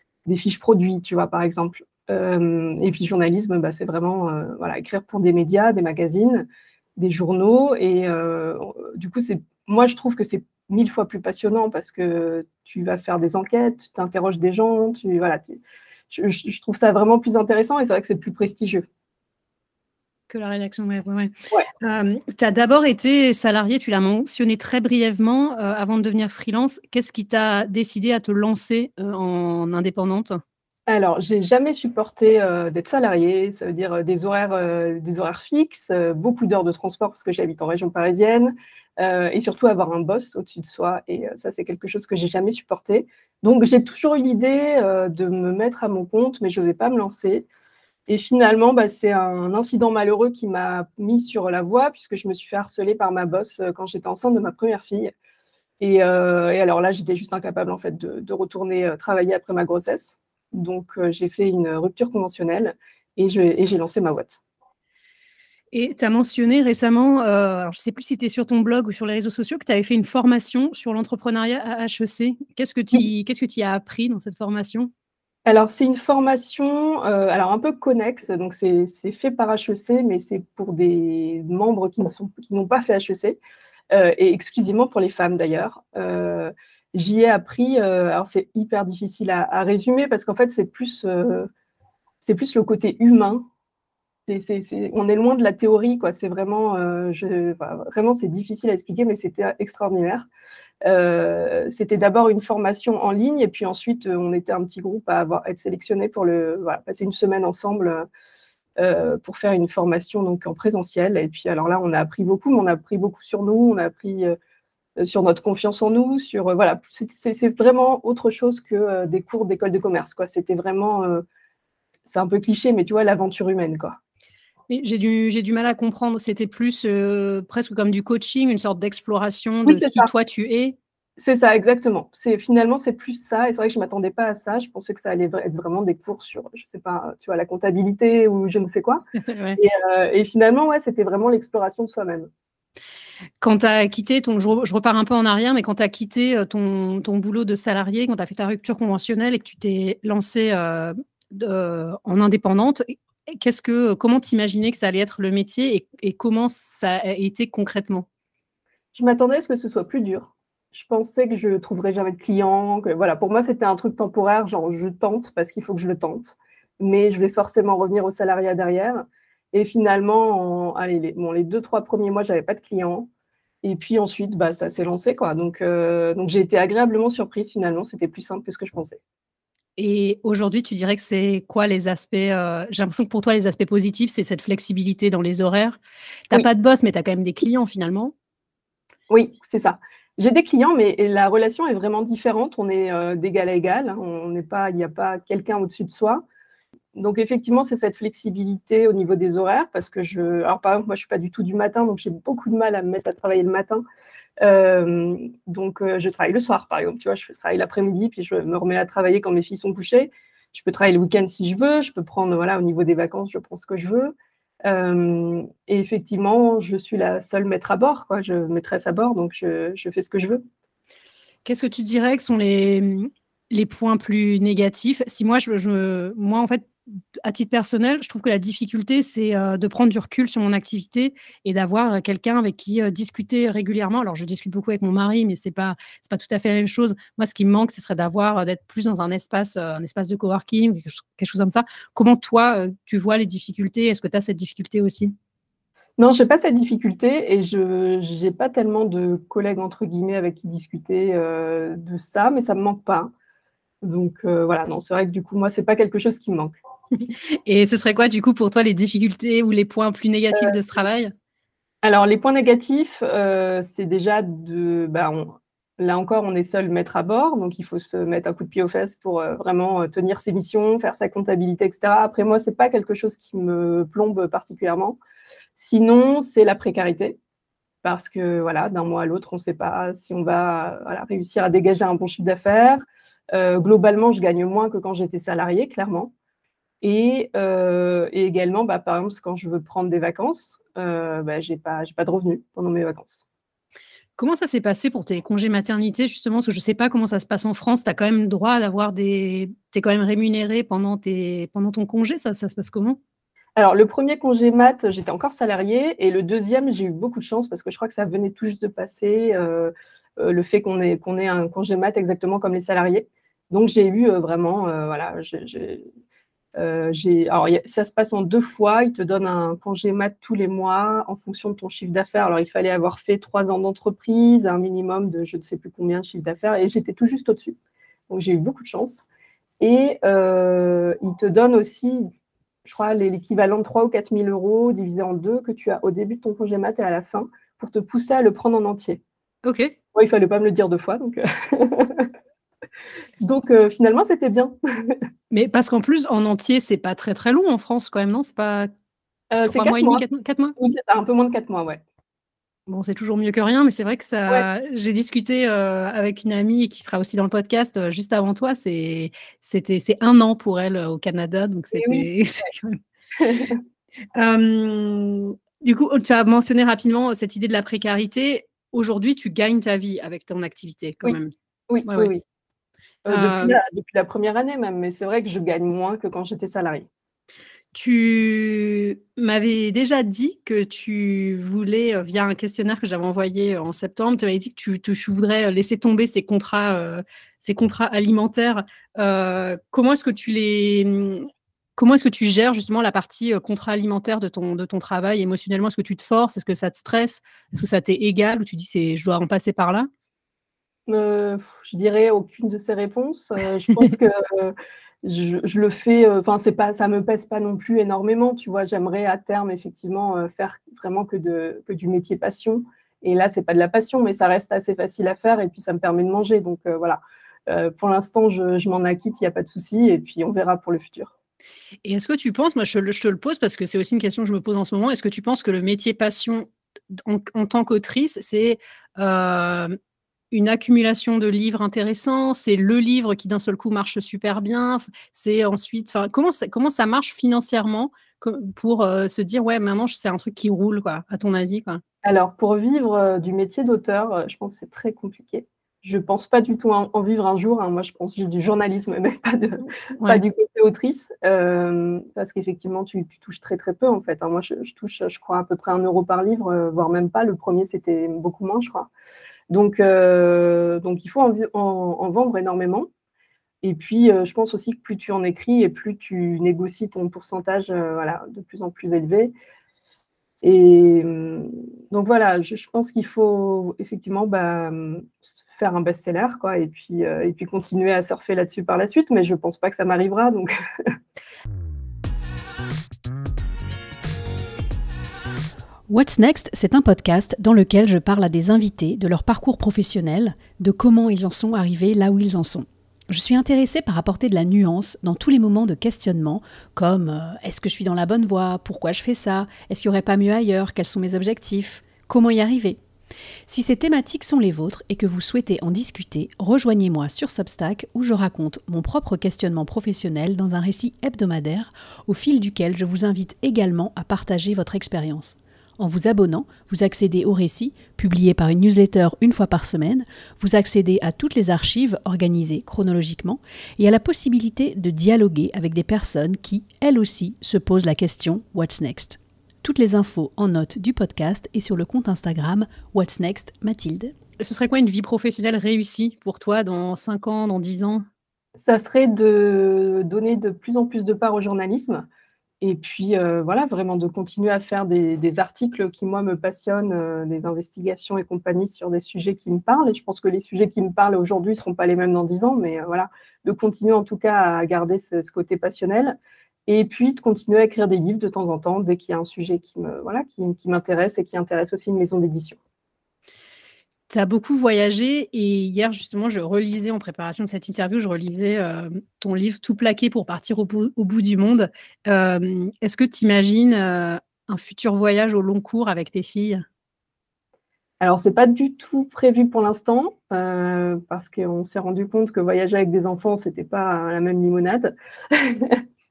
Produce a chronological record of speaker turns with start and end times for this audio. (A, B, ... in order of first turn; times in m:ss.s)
0:00.3-0:18.9 A
0:20.3-0:21.3 B
0:21.8-0:30.4 B
0:30.9-0:47.5 A
0:48.1-0:55.1 A
0:55.8-1:04.4 A
1:05.7-1:14.9 B
1:15.5-1:23.4 A
1:23.9-1:31.5 A
1:32.2-1:33.5 A
1:34.3-1:40.3 A
1:40.8-1:48.1 A
1:48.8-1:54.4 A
1:55.0-2:01.2 A
2:02.1-2:04.0 A
2:04.7-2:10.8 B
2:09.7-2:10.1 A
2:11.2-2:19.0 A
2:19.3-2:19.6 B
2:19.6-2:22.3 A
2:23.4-2:38.1 B
2:38.9-2:53.1 A
2:53.6-2:59.0 A
2:59.8-3:05.8 B
3:06.3-3:08.1 B
3:09.1-3:16.2 A
3:17.0-3:23.8 A
3:24.4-3:40.4 A
3:41.4-4:05.1 B
4:06.0-4:13.1 A
4:13.8-4:16.6 A
4:17.5-4:21.1 B
4:21.8-4:35.0 A
4:35.6-4:37.2 A
4:37.8-4:46.1 A
4:46.8-4:53.2 A
4:54.2-5:03.0 B
5:03.6-5:15.9 A
5:16.6-5:27.6 A
5:28.1-5:29.0 A
5:29.6-5:32.1 A
5:32.6-5:39.0 A
5:39.4-5:39.8 B
5:39.9-5:42.1 A
5:43.2-5:45.0 A
5:45.3-5:48.7 B
5:49.3-5:50.0 A
5:49.5-5:50.6 B
5:50.6-5:51.8 A
5:52.7-6:02.8 B
6:01.7-6:02.1 A
6:03.2-6:03.6 A
6:04.2-6:11.3 B
6:11.7-6:12.2 A
6:13.0-6:16.9 A
6:13.1-6:13.6 B
6:17.7-6:39.9 B
6:40.9-7:01.1 A
7:01.8-7:09.8 B
7:10.3-7:21.8 B
7:22.0-7:38.9 A
7:30.0-7:30.2 B
7:39.5-7:42.9 A
7:43.6-7:49.3 A
7:50.4-8:01.0 A
8:05.9-8:22.8 C
8:23.5-8:54.1 C
8:54.4-8:58.0 B
8:58.6-9:02.1 A
9:02.6-9:22.6 A
9:24.1-9:36.6 B
9:38.0-9:45.8 A